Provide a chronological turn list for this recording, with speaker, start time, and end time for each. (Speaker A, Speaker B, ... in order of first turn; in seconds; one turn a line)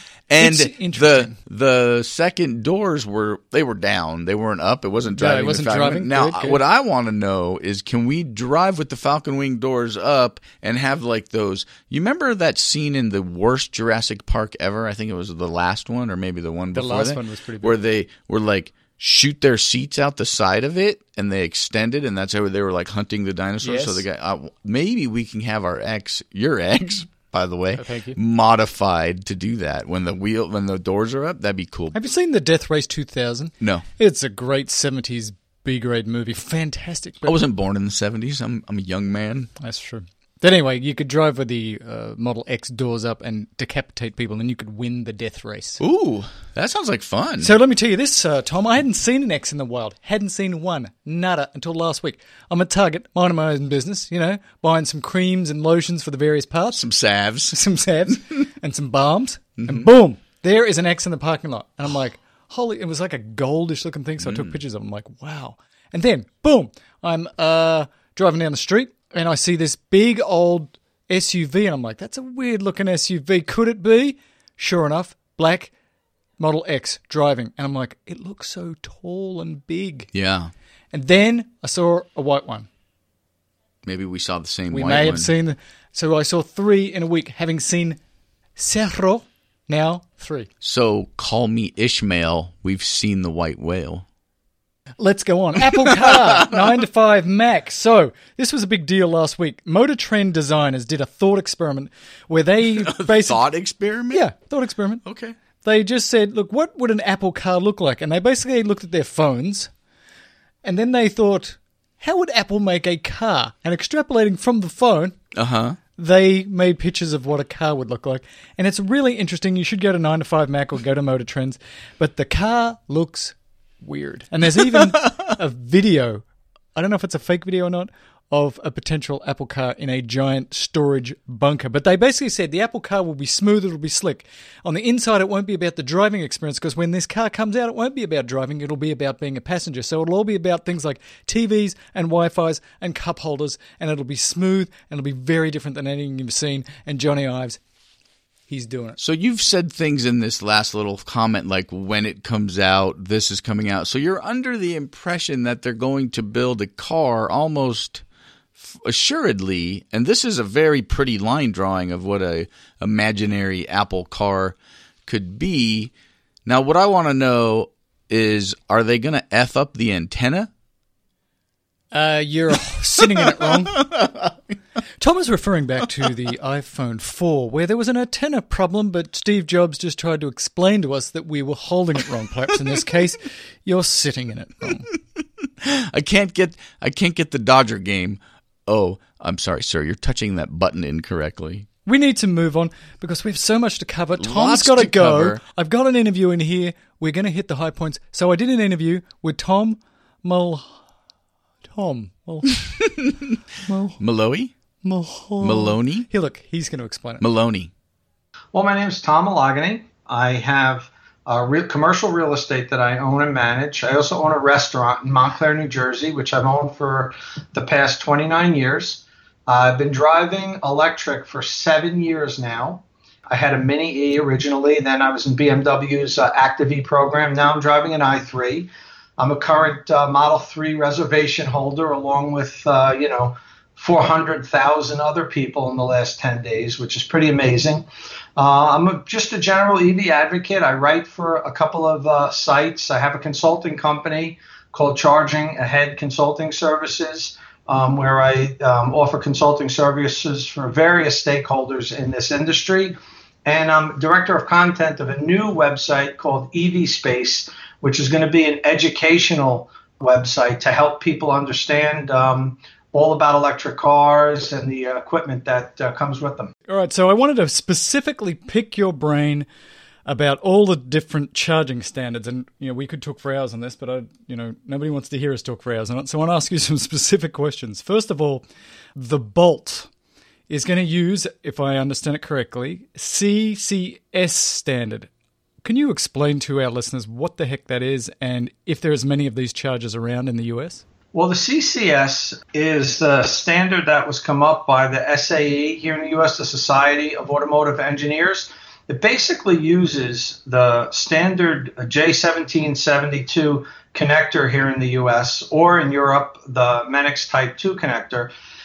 Speaker A: 0.3-31.9
Speaker B: 0.4-1.4
Speaker B: 5.2-6.6
Speaker B: 16.7-17.8
Speaker B: 23.6-24.0
Speaker B: 27.8-28.2
Speaker B: 31.9-37.4
Speaker A: 37.2-39.5
Speaker B: 39.6-45.8
Speaker A: 45.8-47.5
Speaker B: 47.4-56.8
Speaker A: 56.7-57.6
Speaker B: 57.5-75.7
Speaker A: 59.6-59.9
Speaker A: 64.2-64.6
Speaker B: 76.4-80.1
Speaker A: 80.1-80.5
Speaker B: 80.9-82.7
Speaker A: 83.8-85.3
Speaker B: 84.7-88.0
Speaker B: 88.6-90.5
Speaker A: 90.6-94.1
Speaker B: 95.0-103.4
Speaker A: 95.9-96.7
Speaker A: 102.8-104.3
Speaker B: 104.1-105.0
Speaker A: 105.0-105.4
Speaker B: 105.6-109.7
Speaker B: 110.6-115.2
Speaker A: 115.3-115.8
Speaker B: 116.0-126.2
Speaker B: 126.8-147.6
Speaker B: 148.5-149.0
Speaker A: 149.0-158.0
Speaker A: 158.6-164.6
Speaker A: 165.1-165.9
Speaker A: 166.5-170.5
Speaker B: 171.9-173.9
Speaker A: 173.9-174.3
Speaker B: 175.0-184.9
Speaker A: 185.6-191.7
Speaker B: 191.9-200.8
Speaker A: 194.2-195.4
Speaker B: 201.7-202.6
Speaker A: 202.8-203.3
Speaker B: 203.7-204.0
Speaker A: 204.0-204.5
Speaker B: 204.8-207.2
Speaker A: 205.4-206.1
Speaker A: 207.2-207.7
Speaker C: 208.5-266.5
Speaker B: 266.7-269.5
Speaker B: 270.1-279.9
Speaker B: 280.5-285.1
Speaker B: 285.6-290.8
Speaker C: 291.1-308.3